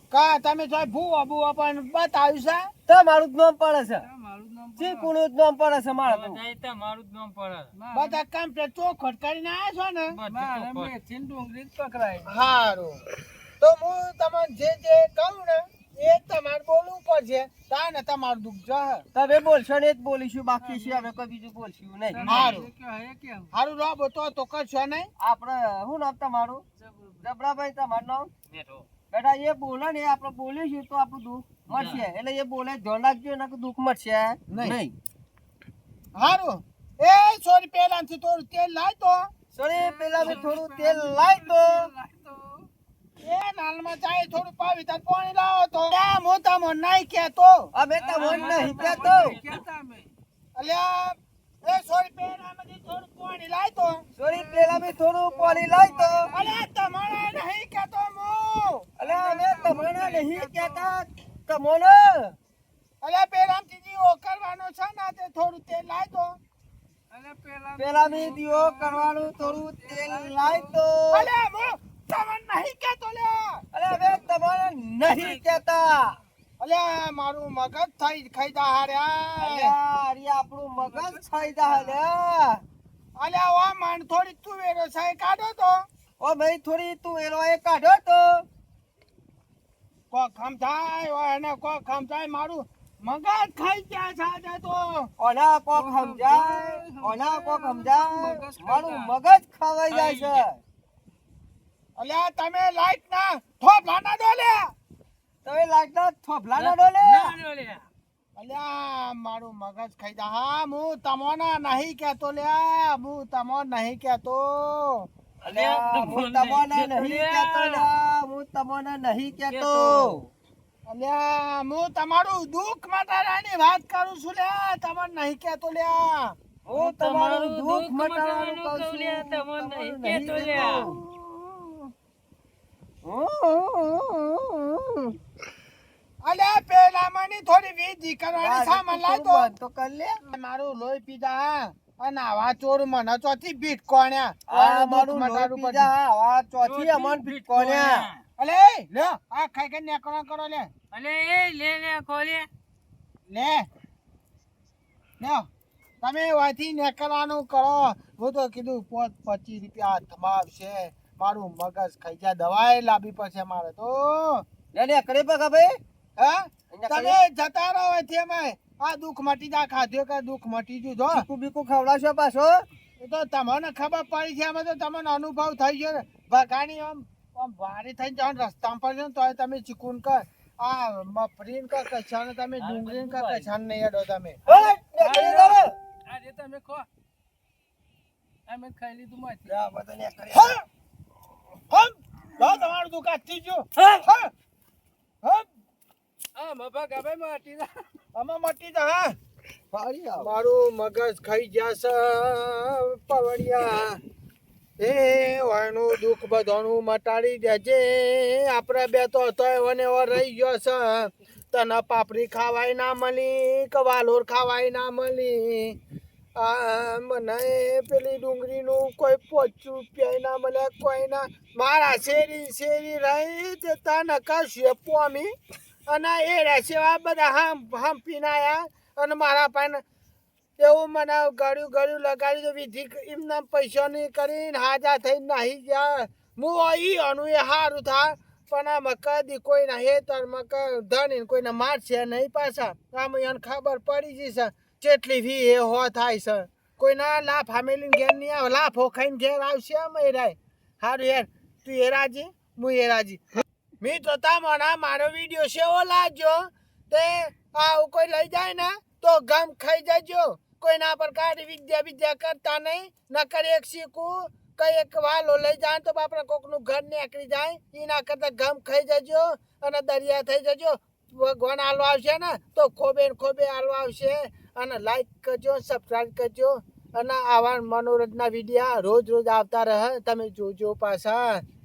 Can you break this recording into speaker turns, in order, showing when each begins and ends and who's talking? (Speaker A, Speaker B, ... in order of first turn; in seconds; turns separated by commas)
Speaker A: 0.1-2.7, Speaker B: 2.9-4.1, Speaker C: 4.0-5.1, Speaker B: 4.8-6.4, Speaker D: 6.1-7.7, Speaker C: 7.8-8.2, Speaker A: 7.9-10.2, Speaker D: 10.1-10.9, Speaker C: 10.3-12.3, Speaker A: 12.3-13.1, Speaker A: 13.6-19.0, Speaker B: 19.1-22.4, Speaker C: 20.6-21.1, Speaker C: 22.1-23.5, Speaker D: 22.2-22.6, Speaker A: 22.3-22.7, Speaker A: 23.5-25.1, Speaker B: 25.2-26.6, Speaker C: 26.8-27.2, Speaker B: 27.2-28.3, Speaker D: 28.5-28.9, Speaker B: 29.1-34.9, Speaker D: 31.7-32.0, Speaker A: 34.5-34.8, Speaker A: 36.1-39.3, Speaker B: 39.5-41.9, Speaker C: 39.7-42.7, Speaker A: 43.2-47.7, Speaker B: 47.7-49.4, Speaker C: 47.9-50.1, Speaker D: 48.2-49.6, Speaker A: 50.6-54.1, Speaker B: 54.2-56.4, Speaker C: 54.2-56.6, Speaker A: 56.3-58.9, Speaker B: 59.0-62.4, Speaker C: 59.0-60.9, Speaker A: 63.0-66.4, Speaker C: 67.1-70.8, Speaker B: 67.8-71.3, Speaker A: 71.1-73.6, Speaker B: 73.7-76.2, Speaker C: 73.9-74.5, Speaker C: 75.1-75.7, Speaker A: 76.6-79.7, Speaker B: 79.4-82.6, Speaker C: 80.8-82.0, Speaker A: 83.2-85.8, Speaker B: 86.2-88.5, Speaker A: 90.1-95.1, Speaker B: 95.2-100.6, Speaker C: 95.7-99.1, Speaker D: 99.9-100.5, Speaker A: 102.0-104.7, Speaker B: 105.5-107.4, Speaker D: 106.6-107.9, Speaker A: 108.4-115.1, Speaker B: 115.4-120.3, Speaker D: 115.5-117.9, Speaker D: 119.4-120.2, Speaker A: 120.9-126.4, Speaker B: 126.7-131.9, Speaker D: 126.7-130.9, Speaker B: 133.0-135.2, Speaker A: 136.2-139.5, Speaker B: 138.4-140.2, Speaker A: 140.2-145.9, Speaker B: 144.5-148.1, Speaker D: 146.6-148.2, Speaker A: 148.4-150.7, Speaker D: 150.9-152.5, Speaker A: 153.3-153.7, Speaker A: 155.2-155.5, Speaker A: 156.0-164.4, Speaker B: 164.7-165.8, Speaker A: 166.2-171.3, Speaker B: 166.7-167.2, Speaker B: 171.1-172.6, Speaker A: 173.0-184.4, Speaker D: 182.6-183.5, Speaker B: 184.5-185.8, Speaker C: 185.0-186.9, Speaker C: 188.5-189.6, Speaker B: 189.5-190.6, Speaker A: 190.3-190.6, Speaker A: 191.7-194.3, Speaker A: 195.2-195.5, Speaker C: 196.4-197.7, Speaker A: 198.2-199.2, Speaker B: 199.7-200.3, Speaker A: 200.2-204.0, Speaker A: 204.8-215.8, Speaker A: 216.4-225.3, Speaker A: 225.9-229.8, Speaker A: 230.6-253.2, Speaker A: 253.8-281.4